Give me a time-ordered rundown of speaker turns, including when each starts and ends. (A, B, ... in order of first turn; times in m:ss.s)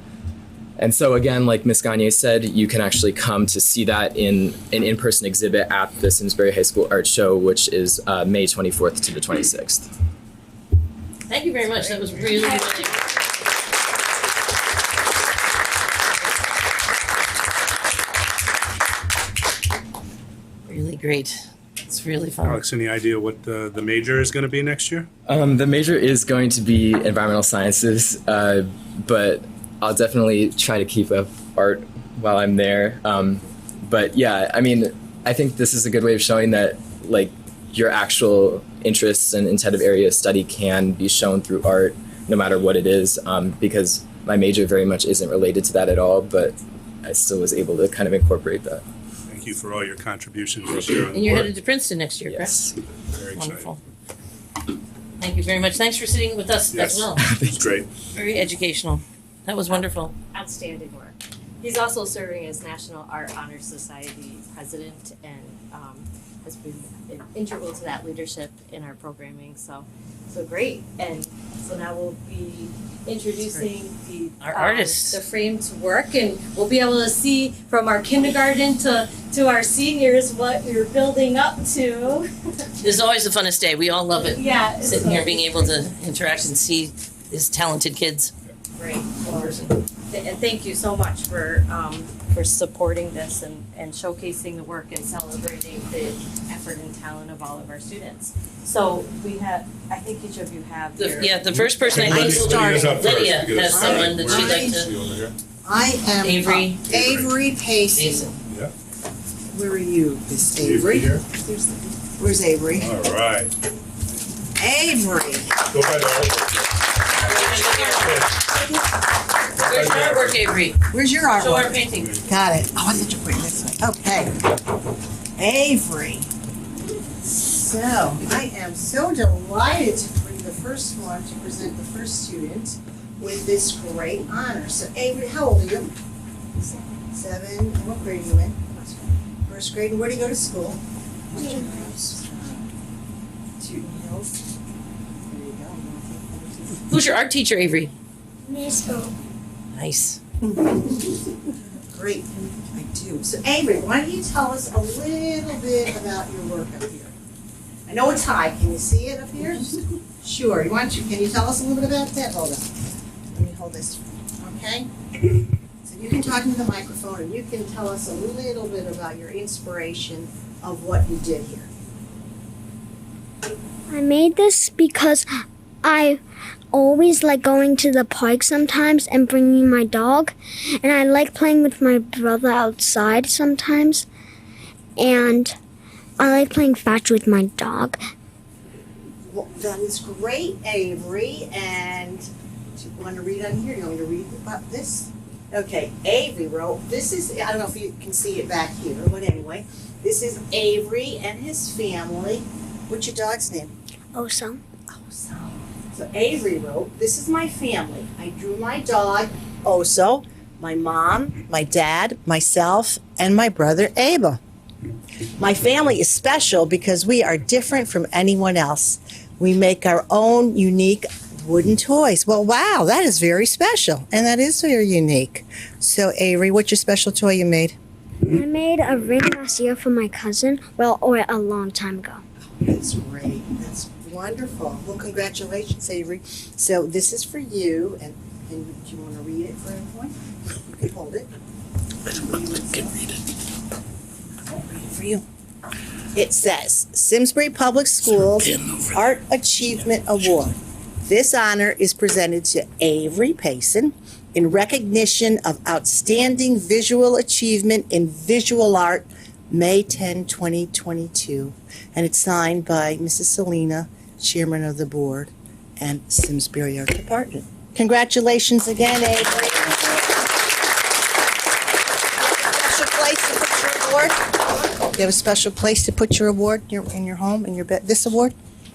0:00.8-0:09.9 A
0:11.3-0:13.0 B
0:20.7-0:22.6 B
0:22.4-0:25.1 C
0:25.3-0:48.8 A
0:49.3-0:51.5 C
0:51.1-0:52.6 B
0:52.2-0:52.7 A
0:53.1-0:53.8 C
0:53.3-0:53.8 B
0:55.2-0:57.2 B
0:56.7-0:57.9 C
0:57.2-0:57.6 A
0:58.1-1:00.1 B
1:00.3-1:22.2 D
1:14.4-1:15.2 B
1:22.8-1:28.3 B
1:24.2-1:25.8 D
1:28.8-1:29.6 D
1:29.2-1:29.8 B
1:30.1-1:41.4 D
1:41.0-1:44.9 B
1:41.5-1:45.3 C
1:41.9-1:44.9 E
1:45.6-1:48.3 E
1:46.2-1:46.8 B
1:46.9-1:47.3 C
1:47.9-1:48.3 B
1:48.5-1:48.7 C
1:49.5-1:52.9 E
1:50.6-1:51.2 C
1:52.7-1:53.5 C
1:54.6-1:55.6 E
1:55.7-1:56.6 C
1:57.2-1:58.3 B
1:57.3-1:58.4 C
1:59.6-2:00.8 B
1:59.6-2:00.4 C
2:00.9-2:04.3 E
2:01.3-2:02.2 B
2:05.4-2:06.3 E
2:07.3-2:15.9 E
2:17.1-2:22.7 E
2:21.4-2:21.8 F
2:23.6-2:24.4 E
2:25.2-2:26.8 E
2:26.9-2:27.9 B
2:28.4-2:29.1 F
2:29.7-2:30.2 B
2:30.5-2:31.0 E
2:31.9-2:37.1 E
2:37.9-2:42.7 E
2:43.3-2:44.9 E
2:45.8-2:51.7 E
2:53.9-2:55.2 F
2:55.8-2:56.2 F
2:56.7-3:04.1 F
3:05.0-3:05.5 F
3:06.2-3:08.0 F
3:09.3-3:23.7 E
3:24.1-3:24.6 F
3:24.9-3:34.4 E
3:35.4-3:47.7 E
3:48.3-3:52.2 F
3:52.6-4:01.3 E
4:02.0-4:03.2 E
4:04.4-4:05.2 E
4:06.1-4:30.2 E
4:32.2-4:38.3 E